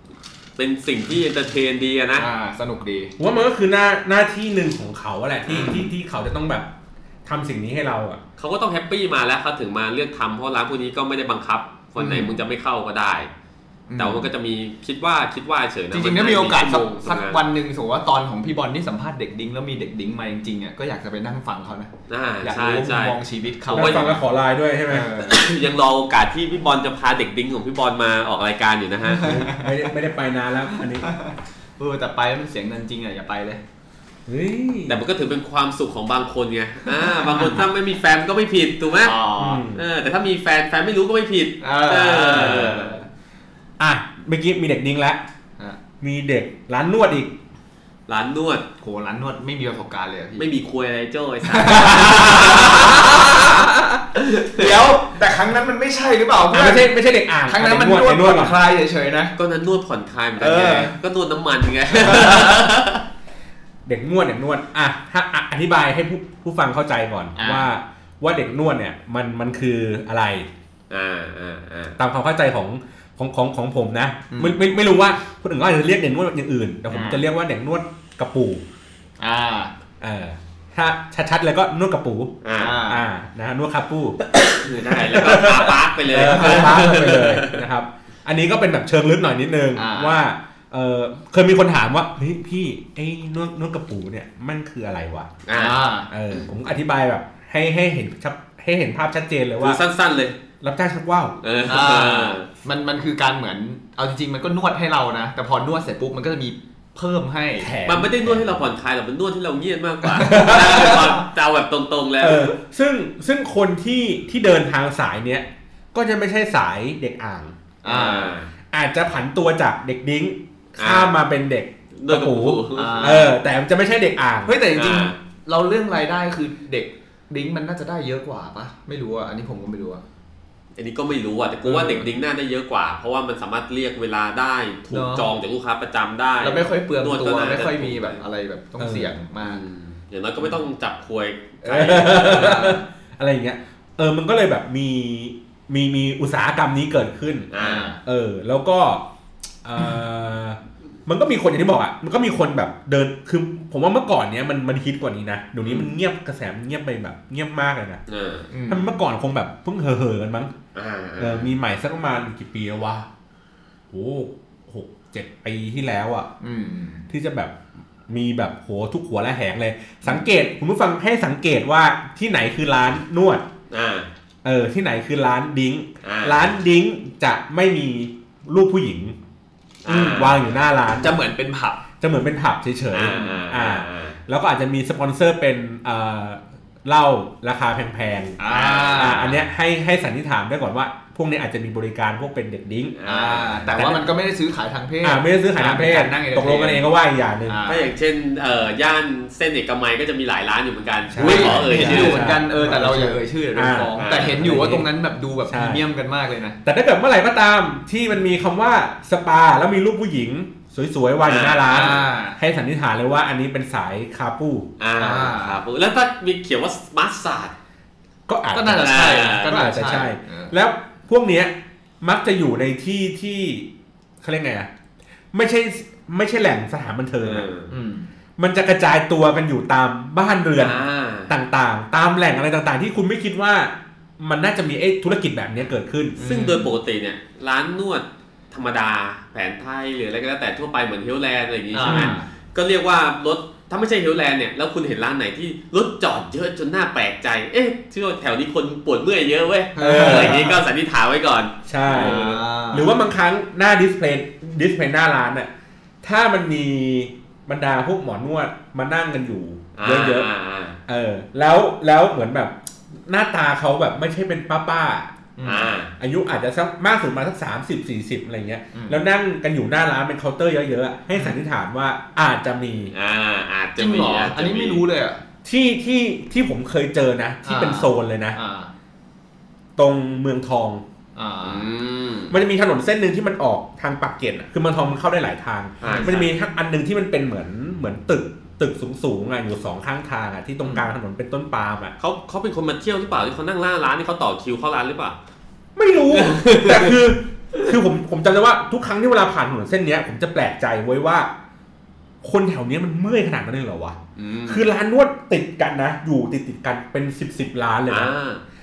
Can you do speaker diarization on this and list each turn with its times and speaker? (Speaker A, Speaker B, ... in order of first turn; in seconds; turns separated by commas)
Speaker A: 0.6-2.3, Speaker B: 2.1-3.1, Speaker C: 3.2-6.7, Speaker B: 5.5-5.9, Speaker C: 7.2-8.2, Speaker A: 8.4-13.3, Speaker B: 12.0-12.4, Speaker B: 13.9-14.3, Speaker A: 14.0-17.4, Speaker B: 15.9-24.2, Speaker A: 22.1-23.2, Speaker A: 23.7-24.1, Speaker C: 23.7-25.1, Speaker B: 24.9-25.5, Speaker A: 25.2-29.4, Speaker B: 29.1-29.8, Speaker C: 29.2-31.1, Speaker B: 30.7-33.6, Speaker C: 34.3-35.0, Speaker A: 34.9-39.2, Speaker B: 36.9-37.6, Speaker B: 39.0-39.6, Speaker C: 39.4-39.8, Speaker A: 39.7-43.0, Speaker B: 41.6-43.1, Speaker C: 42.3-42.7, Speaker C: 43.8-45.2, Speaker C: 46.0-47.3, Speaker A: 48.1-48.6, Speaker B: 48.8-50.5, Speaker A: 50.4-53.5, Speaker B: 51.5-59.3, Speaker C: 52.5-53.5, Speaker A: 54.1-54.8, Speaker C: 56.5-58.6, Speaker A: 59.4-63.0, Speaker B: 60.4-60.9, Speaker B: 62.0-62.6, Speaker C: 63.8-70.5, Speaker B: 67.4-67.7, Speaker A: 70.9-72.0, Speaker C: 72.0-78.6, Speaker B: 74.3-74.6, Speaker B: 76.9-77.2, Speaker B: 79.2-79.7, Speaker C: 80.0-95.4, Speaker A: 82.4-82.8, Speaker B: 82.6-83.0, Speaker A: 84.6-87.6, Speaker B: 86.2-87.0, Speaker B: 89.7-90.2, Speaker A: 95.5-95.8, Speaker B: 95.5-96.1, Speaker C: 96.1-99.8, Speaker A: 99.6-100.3, Speaker C: 100.6-101.3, Speaker A: 101.4-102.5, Speaker B: 101.7-107.7, Speaker C: 107.6-108.7, Speaker A: 107.8-112.5, Speaker B: 110.2-111.2, Speaker C: 110.2-111.0, Speaker C: 112.2-117.6, Speaker B: 117.8-118.3, Speaker A: 117.8-118.5, Speaker C: 118.7-124.6, Speaker A: 120.8-121.2, Speaker A: 121.9-123.3, Speaker B: 122.7-123.3, Speaker B: 124.5-130.0, Speaker A: 124.7-125.2, Speaker A: 130.8-138.2, Speaker B: 131.7-132.1, Speaker B: 134.9-135.3, Speaker B: 136.4-139.6, Speaker C: 138.8-139.1, Speaker A: 139.4-142.7, Speaker C: 141.7-147.5, Speaker B: 141.7-142.8, Speaker A: 147.5-147.9, Speaker B: 147.6-148.0, Speaker C: 148.0-149.1, Speaker C: 149.6-158.0, Speaker A: 158.1-158.5, Speaker B: 158.5-158.9, Speaker C: 158.7-160.5, Speaker A: 160.7-161.5, Speaker C: 161.2-163.1, Speaker C: 163.9-166.3, Speaker B: 166.4-167.1, Speaker C: 167.1-173.4, Speaker A: 173.7-174.1, Speaker C: 174.4-179.2, Speaker A: 176.0-176.5, Speaker A: 179.8-180.4, Speaker B: 179.9-180.4, Speaker C: 179.9-181.2, Speaker B: 180.9-181.8, Speaker C: 182.0-192.9, Speaker A: 182.9-184.2, Speaker B: 188.4-189.4, Speaker A: 188.5-189.3, Speaker A: 192.9-193.6, Speaker B: 193.1-196.8, Speaker C: 193.7-194.1, Speaker C: 195.0-197.6, Speaker B: 197.4-197.9, Speaker A: 197.7-202.3, Speaker C: 201.1-204.9, Speaker B: 201.2-206.6, Speaker A: 204.0-204.5, Speaker C: 205.4-205.8, Speaker C: 206.6-214.7, Speaker A: 211.2-212.0, Speaker B: 211.7-212.4, Speaker A: 214.8-217.5, Speaker B: 215.0-215.6, Speaker C: 218.3-223.7, Speaker B: 218.5-220.5, Speaker A: 218.8-219.6, Speaker C: 224.2-224.7, Speaker C: 225.3-227.5, Speaker A: 227.2-227.7, Speaker B: 227.7-228.1, Speaker C: 228.4-236.2, Speaker A: 230.6-231.3, Speaker B: 236.2-236.7, Speaker A: 236.2-252.3, Speaker B: 241.7-242.2, Speaker C: 241.8-242.2, Speaker B: 249.8-250.6, Speaker C: 249.8-250.6, Speaker C: 251.7-255.5, Speaker B: 251.9-252.9, Speaker C: 256.0-260.3, Speaker A: 259.8-260.8, Speaker C: 260.9-265.2, Speaker B: 265.4-265.7, Speaker A: 265.4-265.9, Speaker C: 266.0-272.9, Speaker B: 268.7-269.0, Speaker A: 272.9-274.8, Speaker B: 273.8-275.2, Speaker C: 275.4-278.4, Speaker B: 277.4-278.7, Speaker C: 279.8-280.8, Speaker B: 281.1-281.7, Speaker A: 281.4-282.4, Speaker C: 282.3-291.9, Speaker A: 285.8-286.3, Speaker B: 285.8-286.2, Speaker B: 290.6-290.9, Speaker A: 292.0-295.1, Speaker C: 295.8-301.3, Speaker A: 296.1-296.9, Speaker C: 302.2-308.1, Speaker A: 304.1-304.6, Speaker A: 307.9-308.4